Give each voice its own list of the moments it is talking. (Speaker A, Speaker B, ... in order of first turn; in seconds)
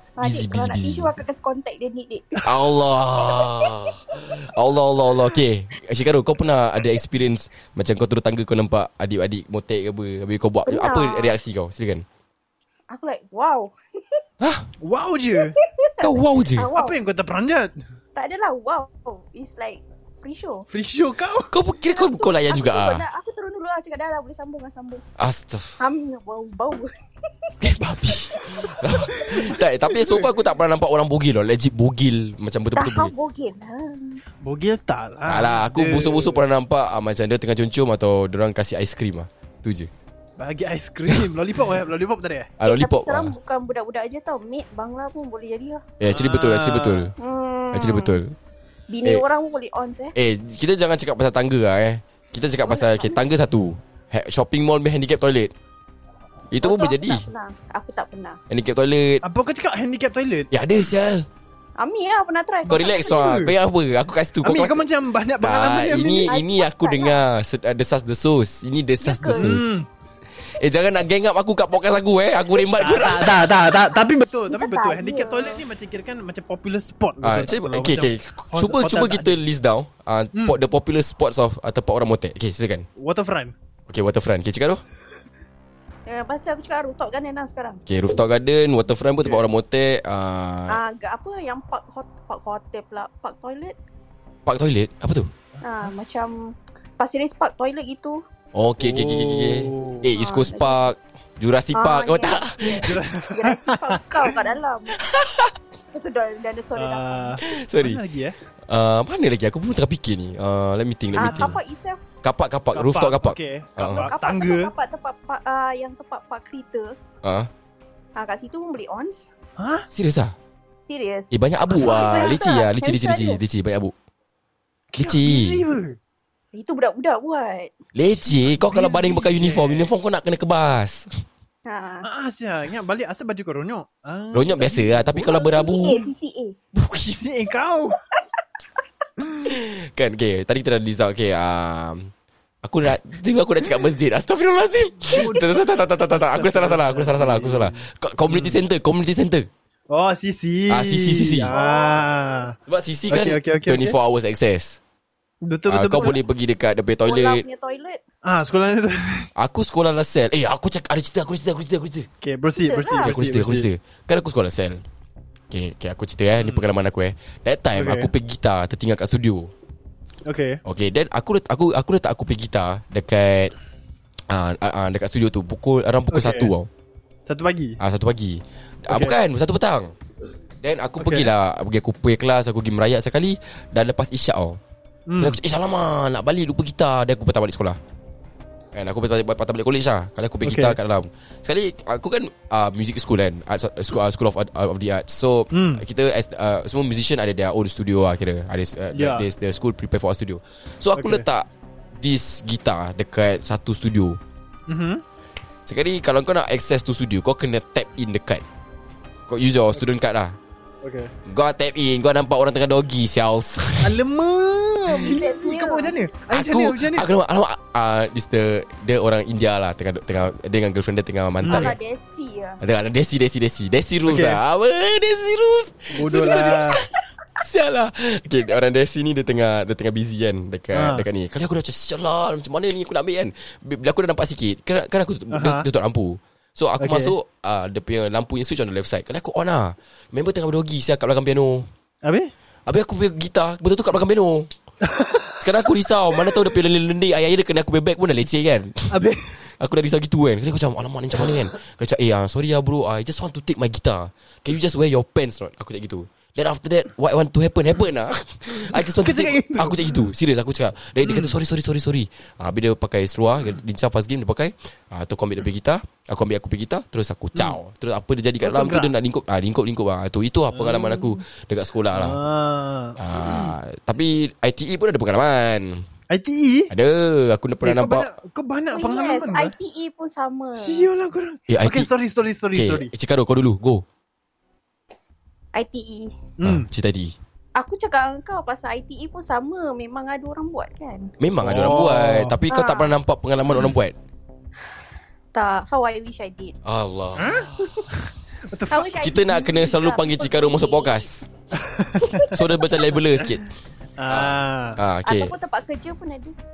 Speaker A: 0.2-2.4, 10.7-11.3, 12.9-14.2, 15.6-16.9, 18.1-20.7, 21.8-25.0, 25.8-26.9, 28.1-29.5, 32.8-34.2, 42.6-45.8, 47.2-48.2, 48.9-50.1, 52.6-53.2, 56.6-58.4, 61.8-63.3, 66.3-67.2, 69.0-69.6, 74.5-75.6, 86.1-87.8, 90.7-93.7, 95.6-96.3, 97.0-98.2, 100.2-100.8, 101.7-105.0, 105.9-107.4, 111.2-112.0, 113.8-116.9, 118.2-119.3, 120.9-123.4, 126.5-127.7, 131.7-132.0, 135.2-136.6, 151.5-152.0, 157.0-158.0, 162.6-163.1, 215.1-215.9, 221.4-222.6, 278.7-280.8, 285.5-286.1, 287.6-291.1, 292.5-292.9, 295.3-296.5, 297.6-297.9, 298.7-301.1, 302.0-302.8, 305.1-306.3
Speaker B: 0.2-1.1, 2.4-12.0, 14.4-14.7, 16.0-16.7, 21.5-23.0, 25.2-25.8, 27.6-33.1, 35.3-39.9, 42.6-43.3, 46.0-47.1, 47.7-48.3, 50.1-55.5, 56.5-57.3, 58.5-59.2, 60.5-61.2, 62.7-64.8, 65.4-69.7, 70.6-73.4, 77.2-82.8, 83.9-84.8, 87.8-90.8, 94.5-95.3, 98.5-102.9, 105.0-105.5, 107.5-108.0, 108.7-111.6, 112.2-114.1, 117.2-117.5, 119.9-120.3, 121.3-123.9, 125.0-125.6, 127.9-131.1, 134.3-136.0, 139.4-142.1, 142.6-149.5, 150.7-151.5, 152.7-154.8, 155.7-157.4, 159.3-162.1, 163.0-164.8, 165.5-169.5, 170.6-173.5, 174.3-176.7, 177.8-179.9, 180.6-184.6, 185.2-187.8, 188.7-204.2, 205.7-208.4, 209.3-210.3, 211.2-214.0, 216.3-221.8, 222.6-226.8, 227.4-241.7, 242.7-244.5, 245.3-272.2, 273.0-275.8, 276.7-278.1, 281.5-281.9, 282.5-283.8, 286.4-287.1, 291.2-293.9, 296.6-297.6, 299.0-301.2, 302.3-303.4, 304.1-305.3
Speaker C: 14.8-15.6, 16.7-17.7, 20.7-21.5, 34.4-36.4, 40.4-42.5, 46.1-47.1, 59.2-60.5, 62.7-63.5, 64.4-66.3, 69.3-69.9, 72.8-79.3, 83.0-83.5, 98.8-100.1, 102.8-104.0, 106.8-108.3, 111.2-111.5, 112.7-114.7, 119.6-119.9, 121.7-122.3, 124.9-126.0, 128.5-129.9, 132.0-135.4, 136.8-138.0, 139.2-139.5, 145.0-148.6, 149.9-152.6, 153.1-153.9, 155.4-156.2, 158.2-159.3, 162.2-163.7, 166.4-166.6, 167.7-168.1, 170.2-170.6, 176.1-176.5, 177.3-177.8, 178.9-179.2, 181.0-181.3, 185.1-185.4, 190.4-190.8, 195.5-195.8, 198.9-199.3, 200.9-201.2, 204.7-205.0, 210.8-211.1, 213.8-217.1, 221.4-221.7, 224.1-224.4, 225.9-226.8, 230.7-231.1, 235.3-235.7, 236.8-237.1, 242.0-242.3, 244.8-245.3, 248.9-249.3, 258.7-260.1, 261.0-261.3, 268.4-268.9, 270.5-271.2, 271.9-273.5, 276.1-276.7, 277.6-279.5, 280.6-282.9, 286.4-286.7, 291.4-292.4, 297.1-299.1, 301.5-302.3, 304.0-304.8